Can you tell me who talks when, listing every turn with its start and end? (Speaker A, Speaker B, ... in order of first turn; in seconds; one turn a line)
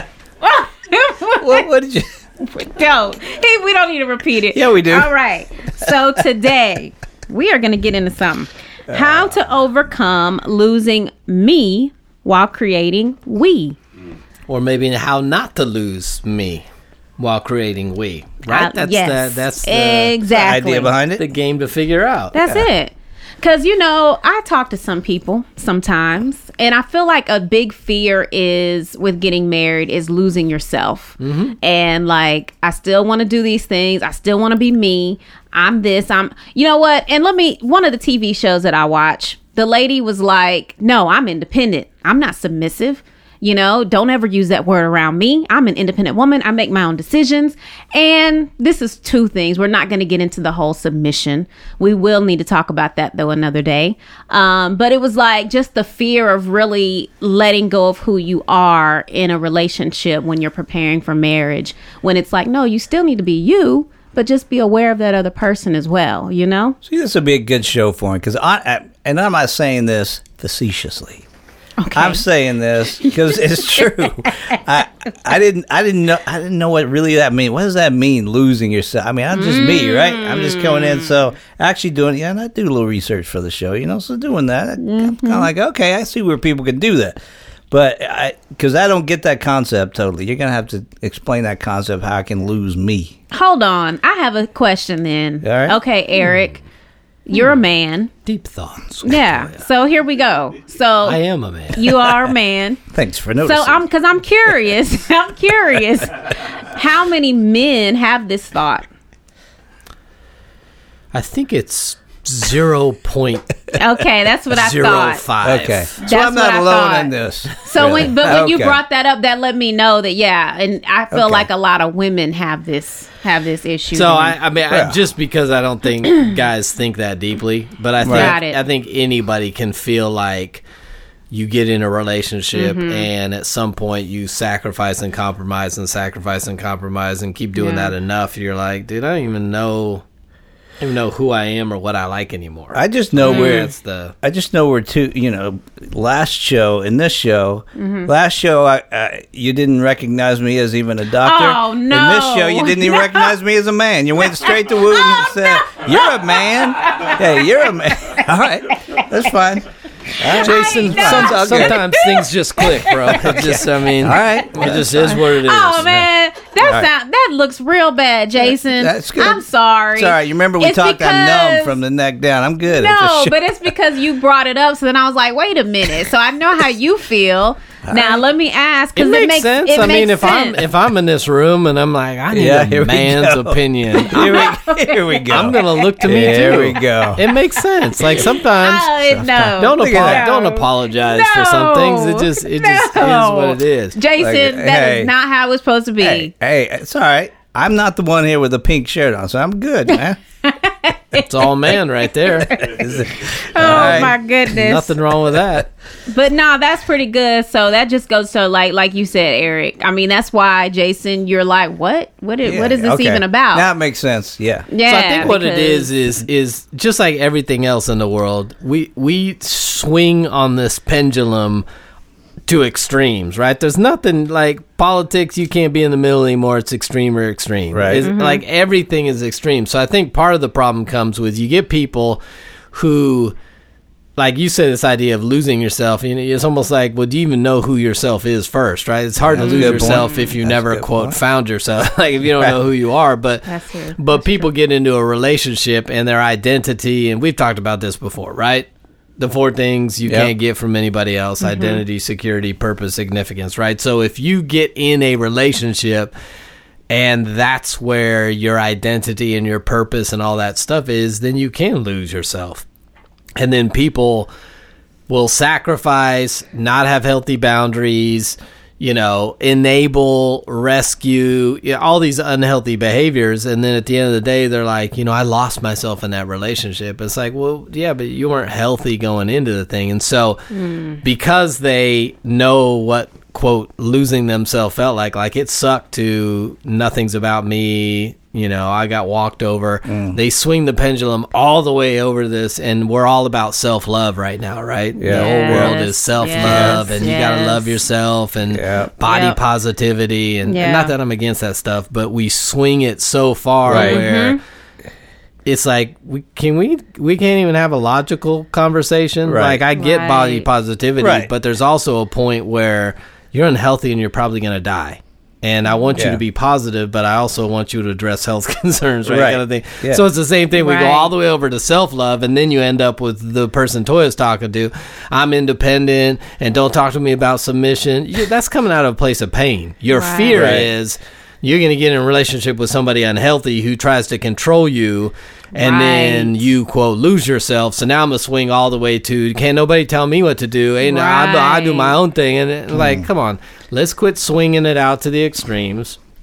Speaker A: 0.4-1.7
Speaker B: 1.4-2.1
Speaker A: 2.4-13.8
Speaker B: 4.5-5.1
Speaker B: 8.9-9.4
Speaker C: 14.5-16.6
Speaker C: 17.2-20.2
Speaker A: 18.5-20.9
Speaker B: 20.3-21.2
Speaker C: 21.2-22.4
Speaker A: 22.3-66.8
Speaker C: 31.2-31.6
Speaker B: 66.8-71.3
Speaker A: 71.8-72.2
Speaker B: 71.9-87.2
Speaker A: 79.3-81.1
Speaker A: 84.8-85.5
Speaker B: 87.7-93.2
Speaker A: 93.3-96.6
Speaker B: 95.4-95.8
Speaker A: 97.3-98.1
Speaker C: 98.3-99.5
Speaker A: 99.0-101.2
Speaker C: 101.0-102.1
Speaker A: 101.7-102.8
Speaker B: 102.9-103.8
Speaker A: 103.4-108.9
Speaker C: 111.1-113.7
Speaker A: 113.8-115.2
Speaker C: 114.5-116.0
Speaker B: 115.4-118.8
Speaker A: 116.0-124.4
Speaker B: 121.1-121.5
Speaker C: 123.9-130.6
Speaker B: 124.7-125.0
Speaker B: 128.0-128.3
Speaker A: 128.1-128.6
Speaker C: 131.3-140.0
Speaker A: 132.6-133.1
Speaker A: 137.6-137.9
Speaker C: 140.8-144.1
Speaker B: 142.7-159.7
Speaker A: 143.2-143.7
Speaker A: 147.8-148.1
Speaker A: 151.2-153.3
Speaker A: 154.9-157.2
Speaker B: 160.2-161.8
Speaker A: 160.2-163.3
Speaker C: 160.4-165.9
Speaker B: 163.2-165.2
Speaker A: 165.1-171.7
Speaker B: 165.8-166.1
Speaker B: 166.6-166.9
Speaker B: 168.8-169.4
Speaker B: 170.0-173.5
Speaker A: 172.7-180.6
Speaker B: 177.9-178.2
Speaker C: 179.0-184.5
Speaker B: 182.3-187.2
Speaker A: 183.9-186.7
Speaker C: 185.3-188.9
Speaker A: 188.0-196.3
Speaker B: 189.1-190.3
Speaker C: 189.6-194.0
Speaker B: 194.2-195.1
Speaker B: 196.0-200.2
Speaker A: 200.4-201.3
Speaker C: 201.2-202.6
Speaker A: 202.4-204.9
Speaker B: 202.5-204.2
Speaker C: 204.5-205.7
Speaker A: 206.1-213.7
Speaker B: 212.4-214.7
Speaker A: 214.7-215.9
Speaker C: 214.8-221.7
Speaker C: 222.5-232.2
Speaker B: 227.7-228.1
Speaker A: 228.0-228.4
Speaker C: 232.7-233.3
Speaker C: 234.2-256.1
Speaker B: 239.3-241.2
Speaker A: 239.4-240.3
Speaker A: 243.5-244.5
Speaker B: 250.1-250.3
Speaker A: 251.4-251.8
Speaker C: 256.9-262.6
Speaker C: 263.4-264.3
Speaker C: 265.1-304.4
Speaker A: 280.6-281.0
Speaker B: 289.9-290.2
Speaker B: 295.0-295.8
Speaker A: 295.1-297.8
Speaker B: 296.4-296.8
Speaker B: 298.5-298.9
Speaker A: 299.0-299.4
Speaker A: 300.5-300.9
Speaker B: 303.7-304.0
Speaker A: 303.7-304.4
Speaker C: 305.4-346.0
Speaker B: 309.2-309.6
Speaker A: 309.8-310.5
Speaker B: 311.0-311.3
Speaker B: 315.9-316.2
Speaker B: 319.0-320.0
Speaker A: 320.6-321.1
Speaker A: 329.9-330.5
Speaker B: 330.3-330.7
Speaker A: 335.6-336.4
Speaker A: 340.9-341.9
Speaker B: 342.7-343.1